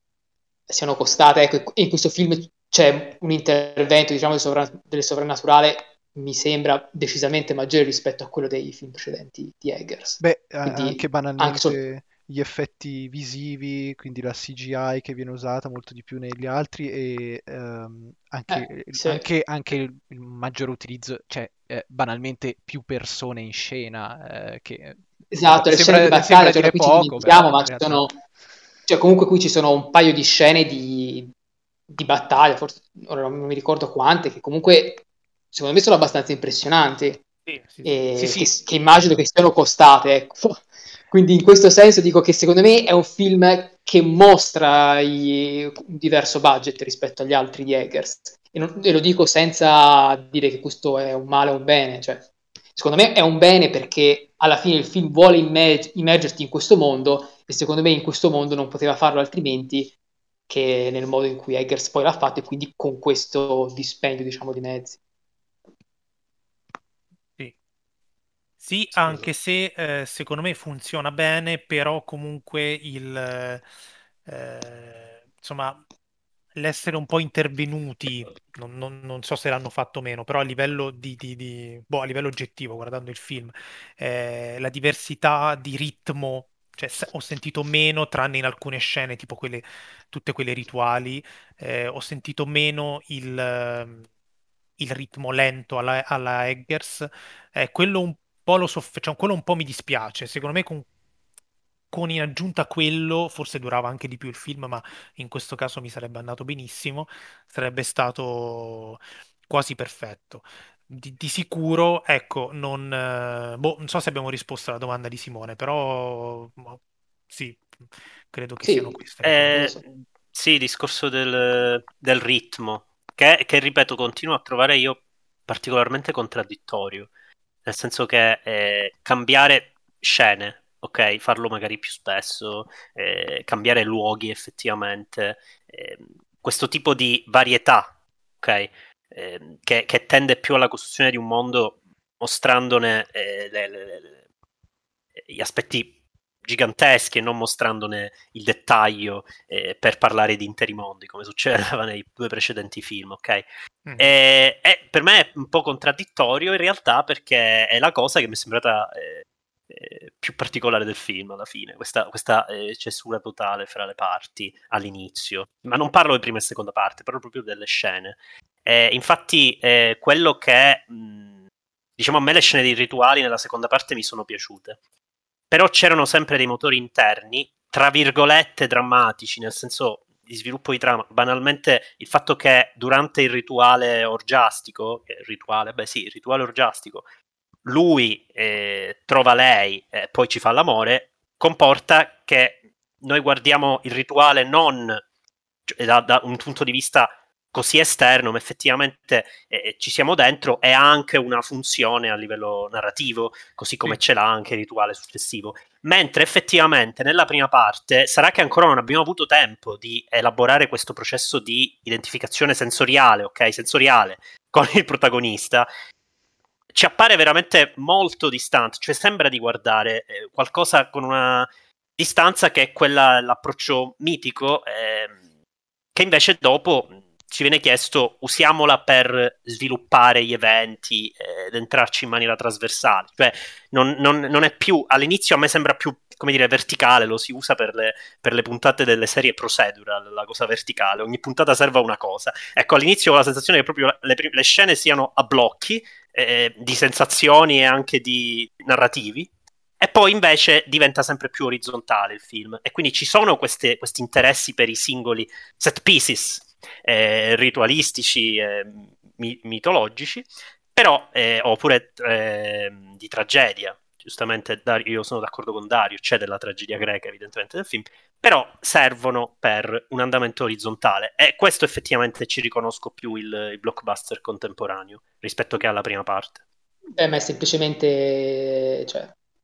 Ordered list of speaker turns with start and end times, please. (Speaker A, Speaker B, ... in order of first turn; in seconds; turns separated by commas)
Speaker A: 0.7-11.8, Speaker B: 10.2-28.1, Speaker A: 18.5-19.2, Speaker A: 25.3-28.1, Speaker A: 28.9-31.3, Speaker A: 31.9-37.2, Speaker C: 37.5-38.4, Speaker A: 37.8-60.0, Speaker A: 60.5-65.0, Speaker C: 68.6-73.6, Speaker C: 74.3-75.8, Speaker C: 76.5-94.1, Speaker C: 94.8-100.9, Speaker C: 101.9-116.8, Speaker C: 117.3-117.7, Speaker C: 118.3-119.6, Speaker A: 118.6-119.8, Speaker D: 119.2-127.1, Speaker D: 127.7-144.2, Speaker D: 145.2-153.4, Speaker C: 153.9-154.1, Speaker D: 154.0-171.4, Speaker D: 172.0-174.8, Speaker D: 175.5-187.1, Speaker D: 187.7-195.0, Speaker D: 195.7-215.7, Speaker D: 216.7-225.2, Speaker D: 225.9-249.3, Speaker D: 249.8-276.4, Speaker A: 277.0-279.1